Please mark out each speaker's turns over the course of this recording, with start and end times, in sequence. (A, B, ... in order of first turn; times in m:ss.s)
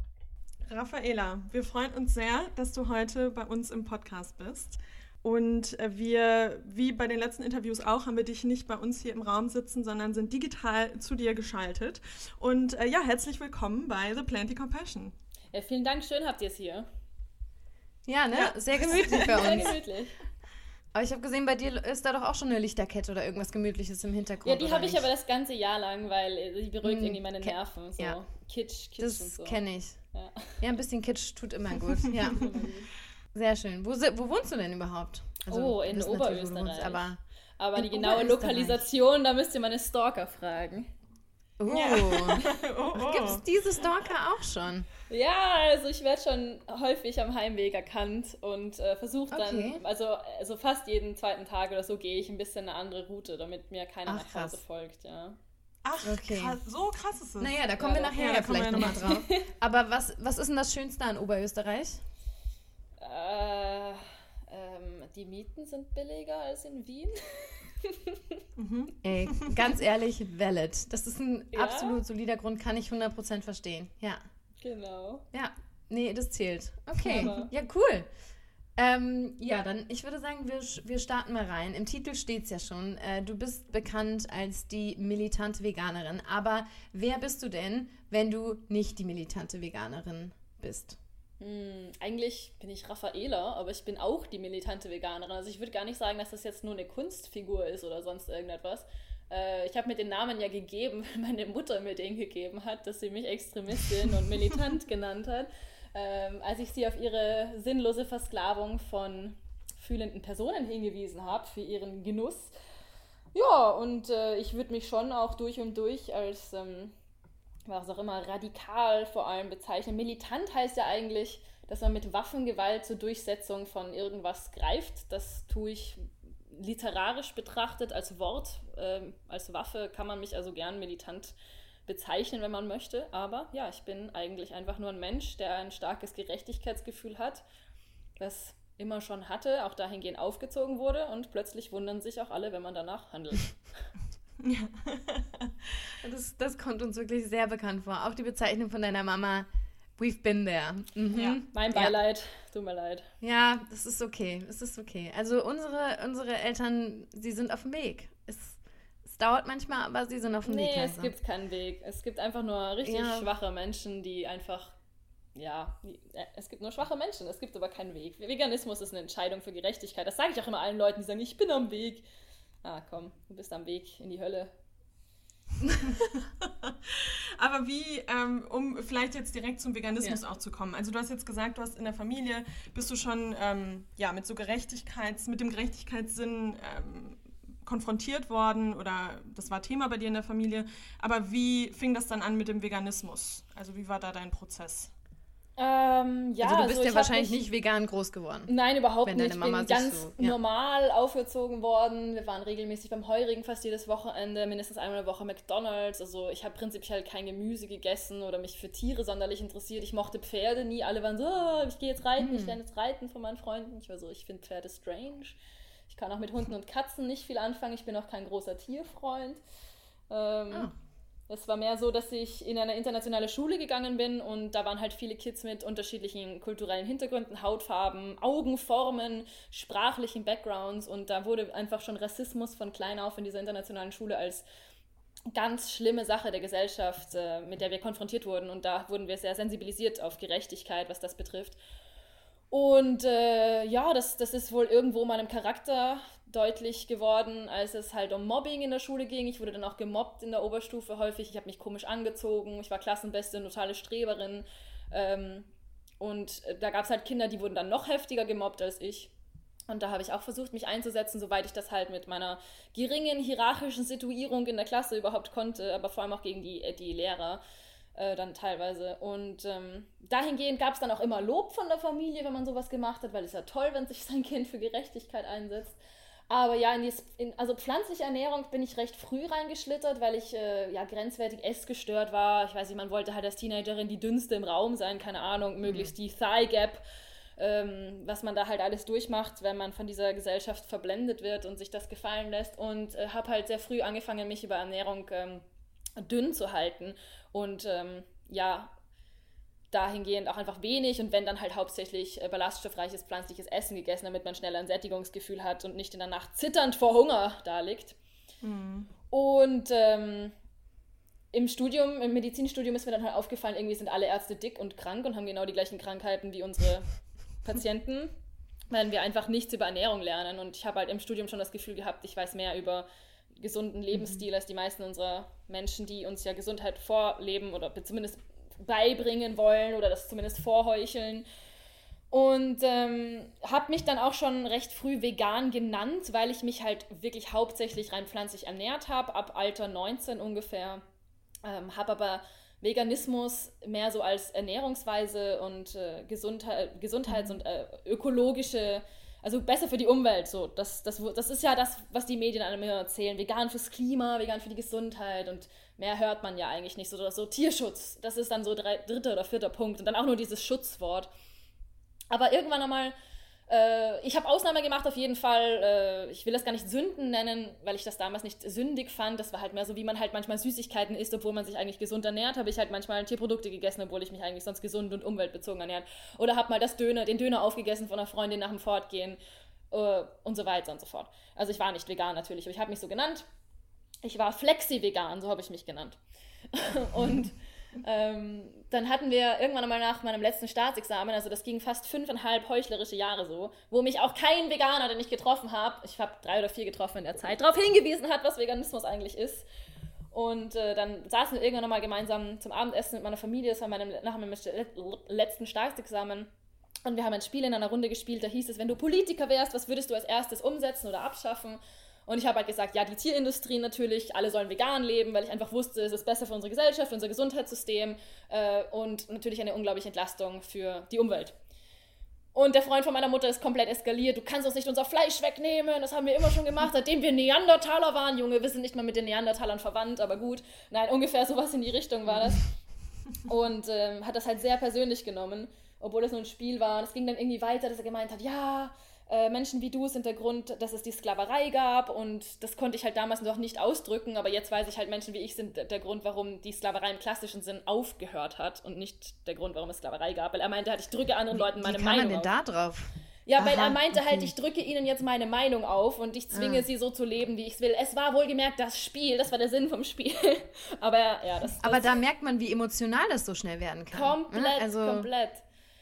0:00.7-0:15.1 A
0:15.5-0:16.9 B
0:18.0-0:19.8 C
0:18.3-0:19.7 A
0:19.0-0:20.1 B
0:20.9-0:25.1 C
0:24.4-0:29.6 B
0:26.8-0:28.2 C
0:29.0-0:30.0 C
0:30.1-0:30.6 B
0:30.6-0:32.5 C
0:32.3-0:32.9 B
0:33.3-0:37.2 C
0:35.5-0:37.1 B
0:37.6-0:40.9 B
0:37.8-0:38.8 C
0:41.6-0:44.9 C
0:41.7-0:43.4 A
0:45.1-0:55.4 B
0:49.3-0:49.8 C
0:54.0-0:54.6 C
0:55.8-0:59.2 A
0:56.0-0:56.6 C
0:57.4-1:02.0 C
0:57.8-0:58.1 B
0:58.8-0:59.4 B
1:03.0-1:08.4 B
1:08.6-1:09.7 A
1:09.0-1:14.2 C
1:11.5-1:12.0 B
1:14.6-1:15.2 B
1:15.3-1:18.1 C
1:17.0-1:17.5 B
1:18.8-1:31.0 C
1:31.4-1:52.5 B
1:53.3-1:56.9 B
1:57.7-2:11.4 B
2:11.9-2:17.4 B
2:18.2-2:23.5 B
2:24.4-2:25.5 A
2:26.0-2:32.0 C
2:31.1-2:33.1 B
2:31.1-2:31.4 A
2:33.2-2:41.1 C
2:40.4-2:44.8 B
2:42.8-2:43.3 C
2:45.3-2:52.0 B
2:52.6-2:54.5 B
2:56.0-3:14.9 A
3:15.6-3:17.4 B
3:16.4-3:18.5 C
3:18.5-3:35.4 B
3:19.0-3:20.4 C
3:32.2-3:32.6 C
3:35.9-3:39.4 B
3:40.1-3:40.7 B
3:41.3-3:54.4 B
3:55.3-4:01.6 B
4:02.5-4:15.5 B
4:16.0-4:19.1 B
4:19.7-4:27.4 B
4:27.9-4:35.8 B
4:36.3-4:46.8 B
4:45.6-4:45.9 C
4:47.4-4:55.4 B
4:56.0-4:58.7 B
4:59.7-5:08.0 B
5:08.4-5:08.9 A
5:09.1-5:10.3 B
5:11.3-5:16.9 B
5:17.4-5:18.1 B
5:18.7-5:31.2 B
5:23.9-5:24.2 C
5:32.1-5:40.8 B
5:41.4-6:01.1 B
5:47.1-5:47.4 C
6:02.1-6:02.9 B
6:03.5-6:19.2 B
6:19.7-6:23.2 B
6:24.0-6:26.0 B
6:26.5-6:39.5 B
6:40.1-6:46.3 B
6:46.8-7:01.4 B
7:02.3-7:12.4 B
7:12.1-7:12.4 C
7:13.3-7:32.3 B
7:31.3-7:34.3 C
7:33.2-7:42.0 B
7:36.3-7:36.6 C
7:41.6-7:45.1 C
7:43.9-7:45.4 B